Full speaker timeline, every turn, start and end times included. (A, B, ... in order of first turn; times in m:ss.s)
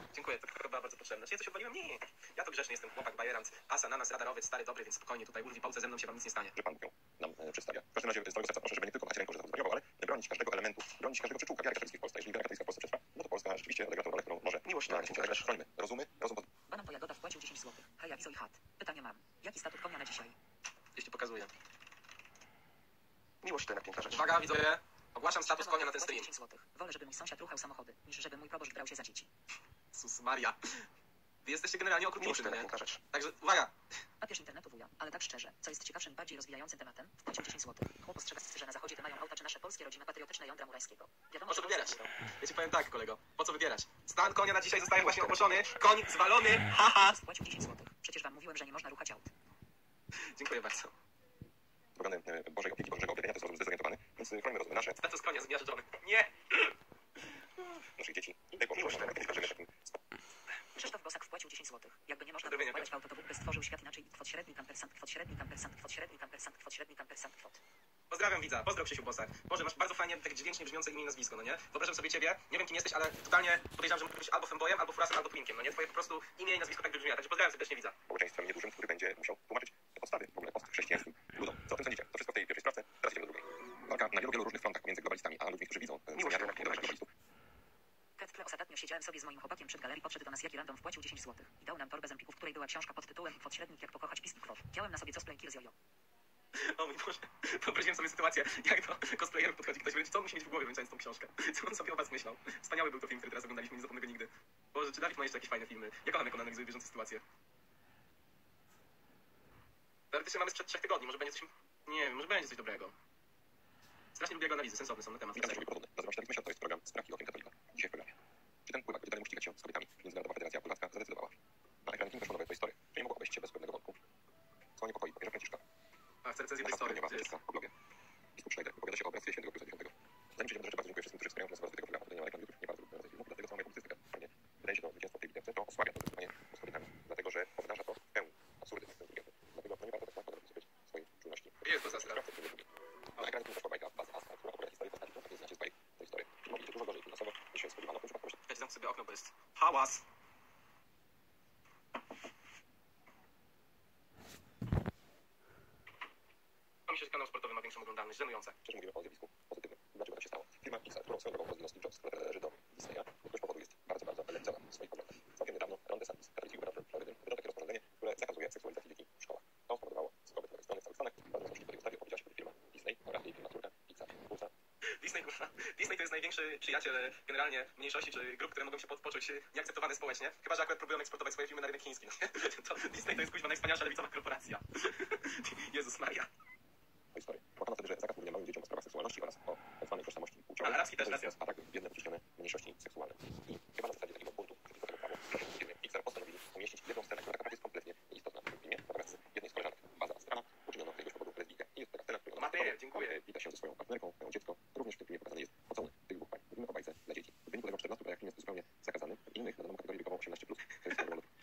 0:00.1-0:06.6 A
0:06.6-0:16.4 B
0:16.7-0:20.4 C
0:21.0-0:21.5 A
0:24.0-0:26.3 A
0:25.4-0:29.3 C
0:29.9-0:30.9 A
0:31.4-0:33.7 A
0:34.2-0:42.1 C
0:41.5-0:47.2 A
0:45.2-0:45.5 B
0:47.1-0:49.3 C
0:50.2-0:50.9 A
0:52.0-0:55.0 B
0:55.0-0:56.7 A
0:58.0-1:00.0 B
1:00.8-1:07.6 C
1:02.4-1:02.9 A
1:08.1-1:18.0 A
1:18.1-1:27.1 B
1:28.2-1:35.7 C
1:36.6-1:47.2 A
1:50.1-1:52.9 A
1:54.2-1:55.7 A
1:55.4-1:58.1 B
1:58.7-2:04.0 B
2:04.8-2:05.6 B
2:06.2-2:07.3 A
2:06.6-2:07.7 B
2:08.4-2:28.4 B
2:21.6-2:22.2 A
2:28.5-2:30.0 A
2:36.9-2:38.6 A
2:38.6-2:54.5 B
2:54.8-3:06.3 A
3:07.1-3:31.3 B
3:10.6-3:11.3 A
3:22.4-3:23.2 A